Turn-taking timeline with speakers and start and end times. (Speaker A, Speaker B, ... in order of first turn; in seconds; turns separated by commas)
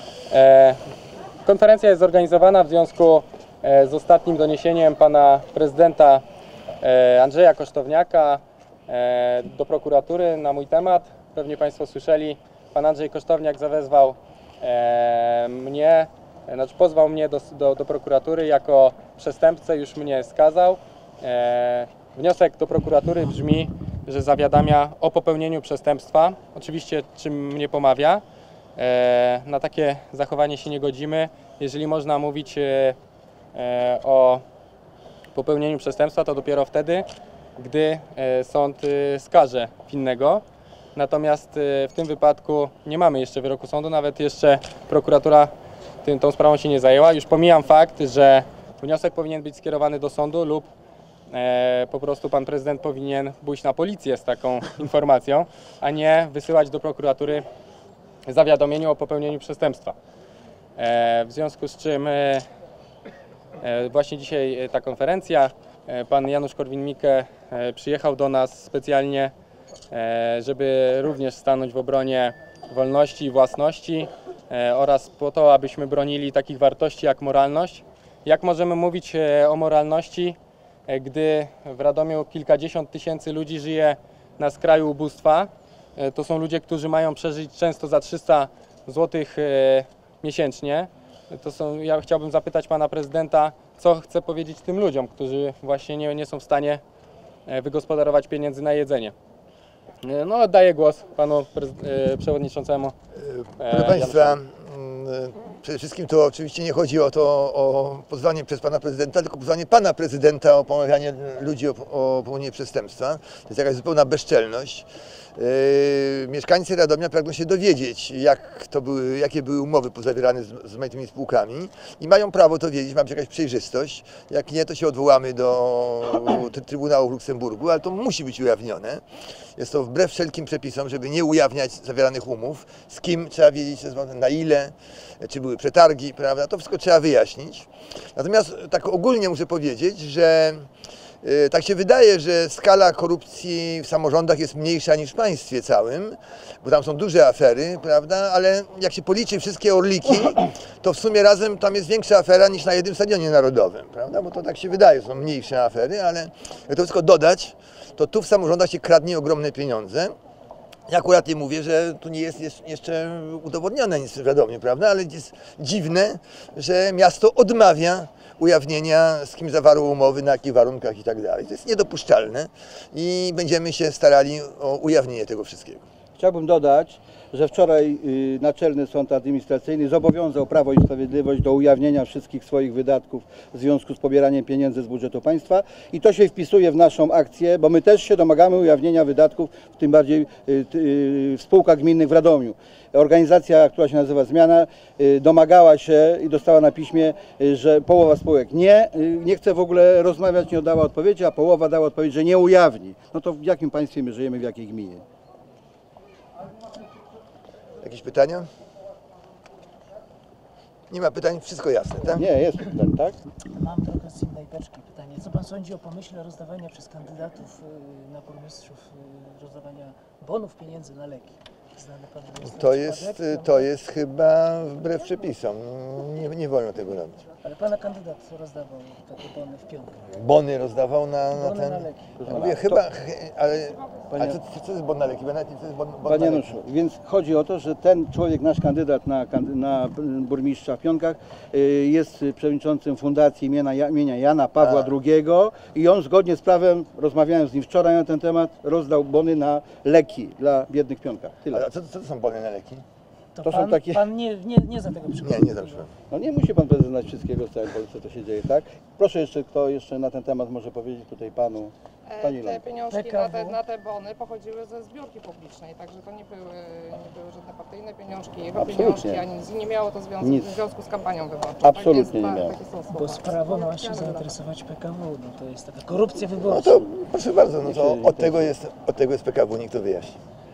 Speaker A: 0.3-0.8, Speaker A: 1.4-6.2, Speaker A: 6.8-28.2, Speaker A: 28.8-33.0, Speaker A: 33.5-34.4, Speaker A: 35.3-37.0, Speaker A: 37.6-40.4, Speaker A: 41.0-45.5, Speaker A: 46.0-50.7, Speaker A: 51.3-57.4, Speaker A: 58.2-60.0, Speaker A: 60.8-62.5, Speaker A: 63.6-69.3, Speaker A: 69.9-96.8, Speaker A: 97.5-99.2, Speaker A: 100.0-103.0, Speaker B: 103.2-129.0, Speaker A: 103.6-104.4, Speaker B: 129.6-140.7, Speaker B: 141.2-160.2, Speaker B: 160.9-175.9, Speaker C: 176.2-205.1, Speaker B: 207.8-208.5, Speaker B: 210.9-212.2, Speaker C: 212.2-213.2, Speaker D: 213.5-223.7, Speaker B: 222.4-227.2, Speaker D: 227.4-230.0, Speaker B: 230.1-236.6, Speaker D: 231.3-232.2, Speaker C: 232.2-232.8, Speaker C: 234.1-234.4, Speaker C: 236.1-251.6, Speaker B: 244.6-244.9, Speaker B: 251.5-252.8, Speaker D: 253.3-255.9, Speaker C: 253.4-254.1, Speaker B: 255.2-255.9, Speaker C: 256.1-262.6, Speaker E: 262.1-274.3, Speaker D: 262.9-263.6, Speaker C: 268.5-269.3, Speaker C: 270.2-270.6, Speaker C: 271.6-272.6, Speaker D: 272.9-276.8, Speaker B: 276.5-280.2, Speaker C: 277.6-278.5